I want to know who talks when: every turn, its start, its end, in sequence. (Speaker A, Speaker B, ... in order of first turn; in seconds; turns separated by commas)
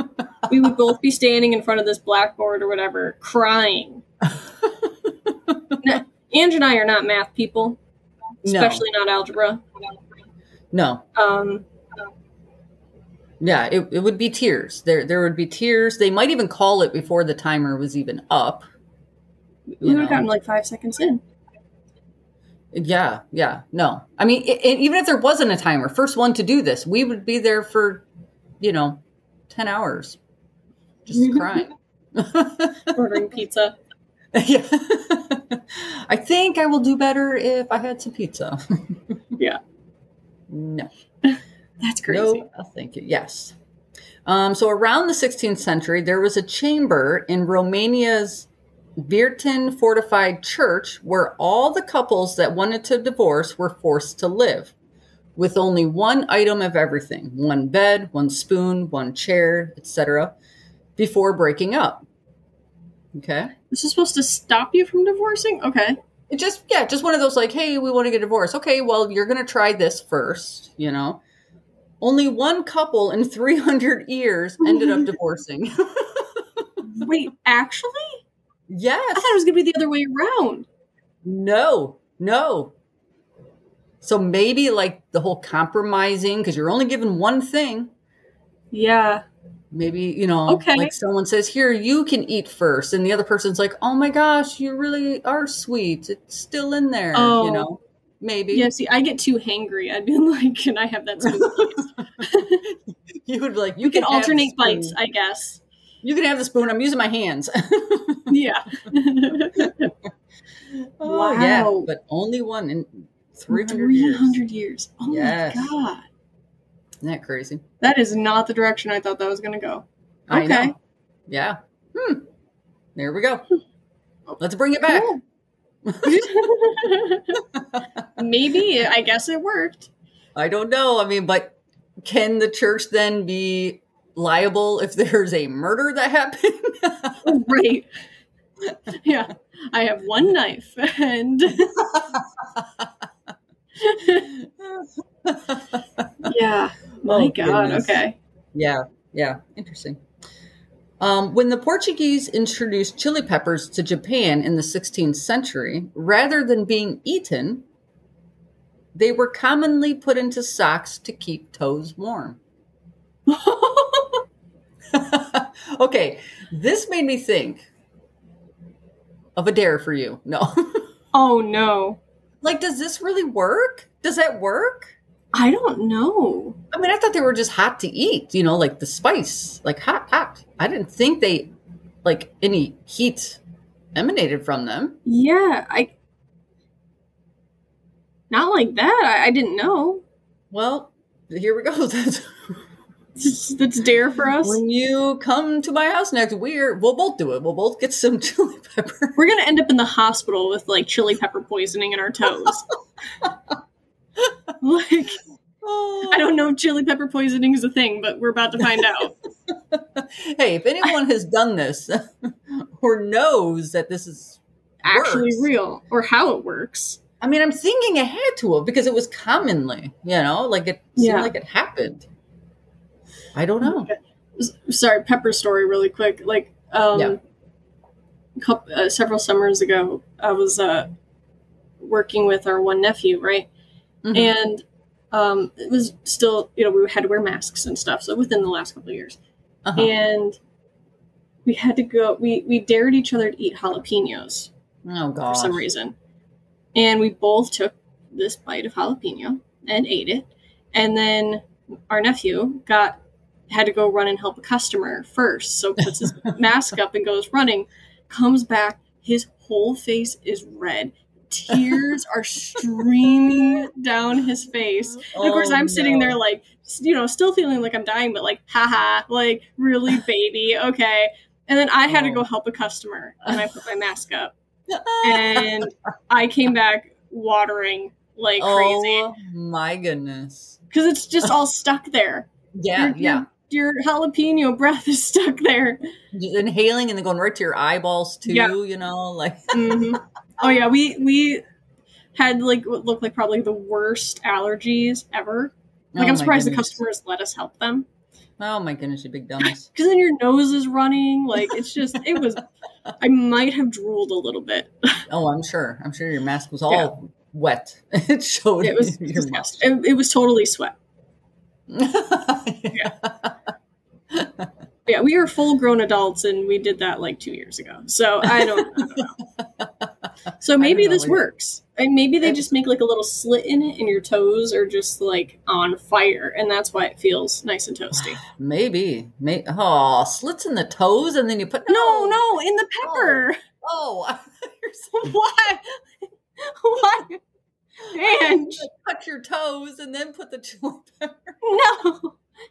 Speaker A: 0.5-4.0, Speaker B: 4.6-5.8, Speaker A: 5.8-7.8, Speaker B: 8.4-8.8, Speaker A: 8.4-9.9, Speaker B: 10.7-11.0, Speaker A: 11.1-11.7, Speaker B: 13.4-18.7, Speaker A: 19.8-21.2, Speaker B: 19.8-20.2, Speaker B: 22.7-28.1, Speaker B: 28.6-30.2, Speaker B: 31.1-33.0, Speaker A: 31.1-31.6, Speaker A: 32.9-33.8, Speaker B: 34.3-39.0, Speaker B: 40.5-40.9, Speaker A: 41.2-42.5, Speaker B: 42.1-43.5, Speaker B: 44.2-48.5, Speaker B: 49.0-54.7, Speaker B: 55.4-60.3, Speaker B: 61.0-62.0, Speaker B: 63.1-63.5, Speaker A: 63.7-66.0, Speaker B: 66.3-71.2, Speaker B: 72.0-77.0, Speaker A: 74.6-75.1, Speaker A: 77.0-78.2, Speaker B: 78.7-79.4, Speaker A: 79.1-80.7, Speaker B: 81.2-82.7, Speaker B: 84.0-87.9, Speaker A: 88.7-89.2, Speaker B: 89.7-98.7, Speaker A: 90.5-90.9, Speaker A: 97.1-97.7, Speaker A: 98.5-102.6, Speaker B: 101.2-102.7, Speaker B: 103.2-105.0, Speaker A: 103.8-105.6, Speaker B: 106.0-108.4, Speaker A: 108.3-109.9, Speaker B: 110.7-114.4, Speaker A: 111.0-111.9, Speaker A: 113.5-116.0, Speaker B: 115.1-115.7, Speaker B: 117.0-117.6, Speaker A: 117.8-120.7, Speaker B: 120.3-120.7, Speaker B: 121.3-122.2, Speaker B: 123.0-123.5, Speaker A: 124.3-125.2, Speaker B: 124.4-125.2, Speaker B: 125.8-126.2, Speaker A: 126.0-127.4, Speaker B: 127.5-128.1, Speaker A: 128.2-129.9, Speaker B: 130.3-137.2, Speaker A: 137.2-137.9, Speaker A: 138.9-141.8, Speaker B: 141.8-142.9, Speaker A: 143.8-144.3, Speaker B: 144.3-146.3, Speaker A: 146.2-148.2, Speaker B: 147.1-148.0, Speaker B: 148.5-150.0, Speaker B: 151.0-157.6, Speaker B: 158.9-162.4, Speaker A: 163.3-164.2, Speaker B: 164.9-167.6, Speaker B: 169.3-170.8, Speaker A: 171.1-172.0, Speaker B: 172.4-174.9, Speaker A: 175.3-176.6, Speaker B: 176.7-181.5, Speaker B: 182.0-183.4, Speaker B: 183.9-185.0, Speaker A: 185.0-185.9, Speaker A: 188.3-190.0, Speaker B: 190.5-192.3, Speaker A: 193.2-194.6, Speaker B: 194.4-199.2, Speaker A: 199.2-202.7, Speaker A: 204.6-205.2, Speaker B: 205.6-206.4, Speaker A: 206.1-209.1, Speaker B: 209.5-215.5, Speaker A: 214.8-217.0, Speaker B: 217.2-222.1, Speaker A: 221.0-221.3, Speaker B: 223.3-223.9, Speaker A: 223.6-227.2, Speaker A: 228.4-230.9, Speaker A: 231.8-233.5, Speaker B: 234.0-234.3, Speaker A: 234.1-239.2, Speaker B: 239.6-239.9, Speaker A: 239.8-240.4, Speaker A: 241.4-244.5, Speaker B: 244.8-245.7, Speaker A: 245.3-245.9, Speaker A: 246.7-274.3, Speaker B: 265.0-266.2, Speaker B: 271.9-272.2, Speaker B: 274.7-275.7, Speaker A: 275.0-279.1, Speaker B: 278.4-280.6, Speaker A: 280.7-285.8, Speaker B: 282.5-283.2, Speaker B: 286.1-290.0, Speaker A: 288.2-288.5, Speaker A: 289.5-291.4, Speaker A: 292.1-297.9, Speaker B: 295.9-296.8, Speaker B: 298.4-299.7, Speaker A: 299.7-302.4, Speaker A: 303.0-305.0, Speaker B: 305.1-309.6, Speaker A: 308.6-310.7, Speaker B: 311.7-313.4, Speaker B: 314.1-314.5, Speaker A: 314.9-319.1, Speaker B: 318.4-319.9, Speaker A: 320.4-328.2, Speaker B: 320.6-321.2, Speaker B: 327.9-332.2, Speaker A: 331.7-333.4, Speaker B: 332.8-335.1, Speaker A: 334.9-335.8, Speaker A: 336.4-337.2, Speaker B: 337.9-341.4, Speaker A: 337.9-338.7, Speaker A: 341.4-342.2